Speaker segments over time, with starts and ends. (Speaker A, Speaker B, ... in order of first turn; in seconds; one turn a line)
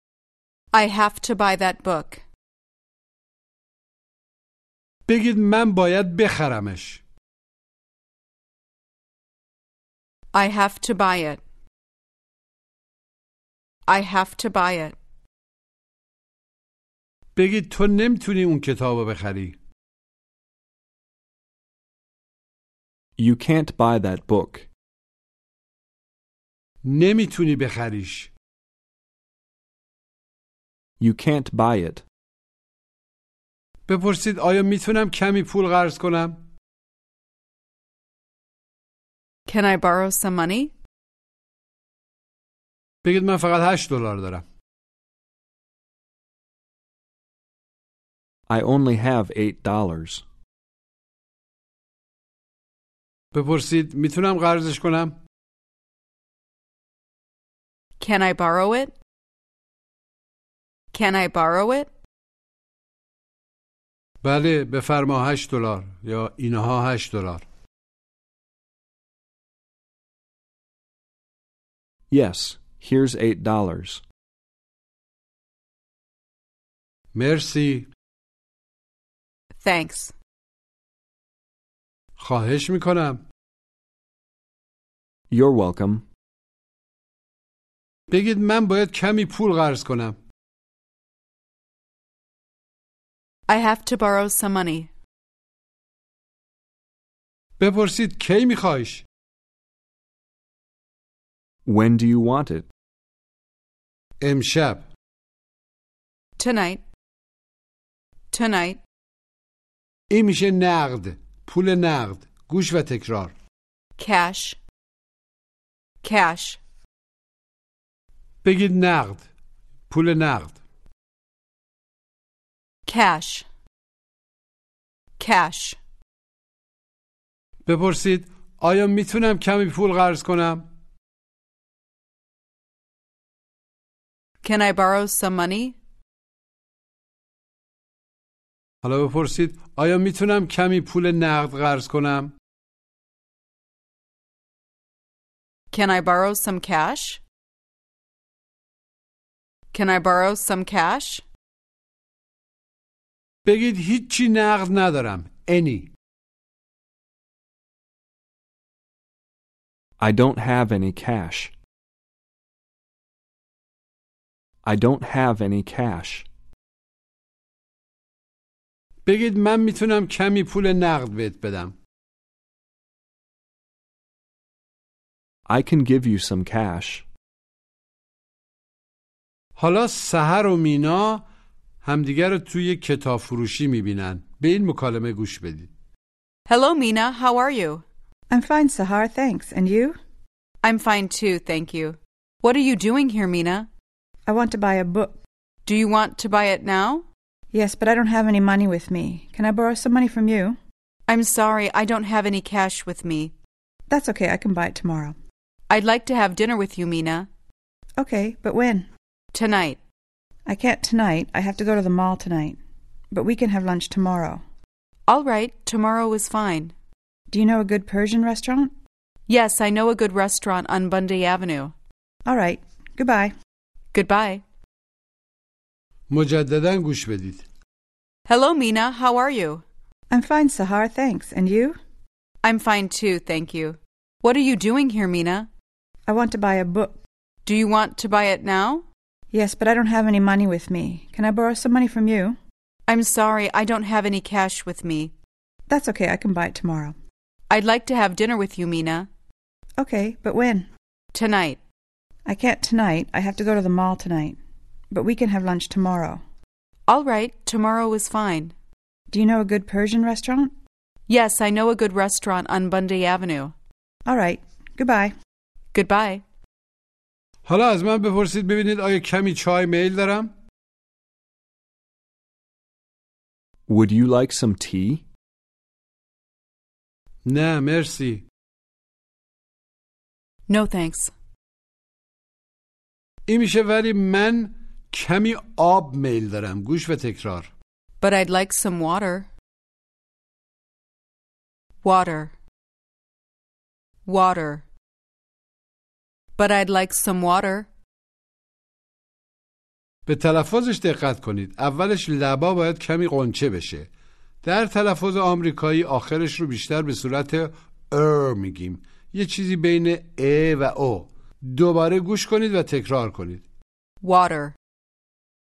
Speaker A: 0.7-2.2
Speaker B: 5.1-7.0
Speaker A: 10.3-11.4
Speaker A: 13.9-14.9
Speaker B: 17.4-19.6
Speaker C: 23.2-24.7
Speaker B: 26.8-28.3
Speaker C: 31.0-32.0
Speaker B: 33.9-36.5
Speaker A: 39.5-40.7
Speaker B: 43.0-44.4
Speaker C: 48.5-50.2
Speaker B: 53.3-55.2
Speaker A: 58.0-58.9
Speaker A: 60.9-61.9
Speaker B: 64.2-67.4
Speaker C: 72.1-74.0
Speaker B: 77.1-77.9
Speaker A: 79.6-80.1
Speaker B: 82.2-83.2
Speaker C: 85.3-86.1
Speaker B: 88.1-90.2
Speaker A: 93.5-94.9
Speaker B: 97.6-99.0
Speaker C: 101.7-102.7
Speaker B: 104.2-104.9
Speaker A: 106.4-106.8
Speaker A: 108.3-108.8
Speaker B: 110.1-113.3
Speaker A: 114.0-114.6
Speaker A: 116.0-116.6
Speaker B: 118.4-119.3
Speaker B: 119.9-120.6
Speaker A: 122.9-123.5
Speaker A: 125.2-125.8
Speaker B: 127.7-130.7
Speaker A: 134.4-135.8
Speaker B: 138.8-142.3
Speaker A: 145.7-147.2
Speaker A: 149.7-151.2
Speaker B: 153.4-155.9
Speaker C: 160.0-161.5
Speaker C: 164.6-166.3
Speaker B: 169.1-171.7
Speaker C: 175.5-177.1
Speaker B: 179.6-181.2
Speaker B: 181.8-185.7
Speaker A: 186.5-187.8
Speaker D: 188.3-190.0
Speaker A: 190.6-193.7
Speaker D: 194.3-195.2
Speaker A: 195.7-197.1
Speaker D: 197.5-200.6
Speaker A: 201.1-203.3
Speaker D: 203.9-205.2
Speaker A: 205.7-207.3
Speaker D: 208.0-208.9
Speaker A: 209.3-209.8
Speaker D: 210.5-212.6
Speaker D: 213.1-214.4
Speaker A: 215.1-216.7
Speaker D: 217.3-218.7
Speaker A: 219.3-221.7
Speaker D: 222.3-223.3
Speaker A: 223.9-224.4
Speaker B: 226.1-227.4
Speaker A: 228.3-229.6
Speaker D: 230.1-231.8
Speaker A: 232.4-235.5
Speaker D: 236.1-237.0
Speaker A: 237.4-238.8
Speaker D: 239.3-242.4
Speaker A: 242.9-245.1
Speaker D: 245.7-246.9
Speaker A: 247.5-249.1
Speaker D: 249.8-250.7
Speaker A: 251.1-251.6
Speaker D: 252.3-254.4
Speaker D: 254.9-256.2
Speaker A: 256.9-258.5
Speaker D: 259.1-260.5
Speaker A: 261.1-263.5
Speaker D: 264.1-265.1
Speaker A: 265.7-266.2
Speaker B: 267.4-270.3
Speaker C: 273.7-275.1
Speaker B: 277.2-278.2
Speaker A: 280.5-281.1
Speaker B: 283.3-287.5
Speaker A: 288.0-289.3
Speaker A: 291.8-292.3
Speaker A: 294.1-294.6
Speaker A: 296.4-297.7
Speaker B: 300.1-303.9
Speaker B: 304.4-313.4
Speaker A: 314.0-314.6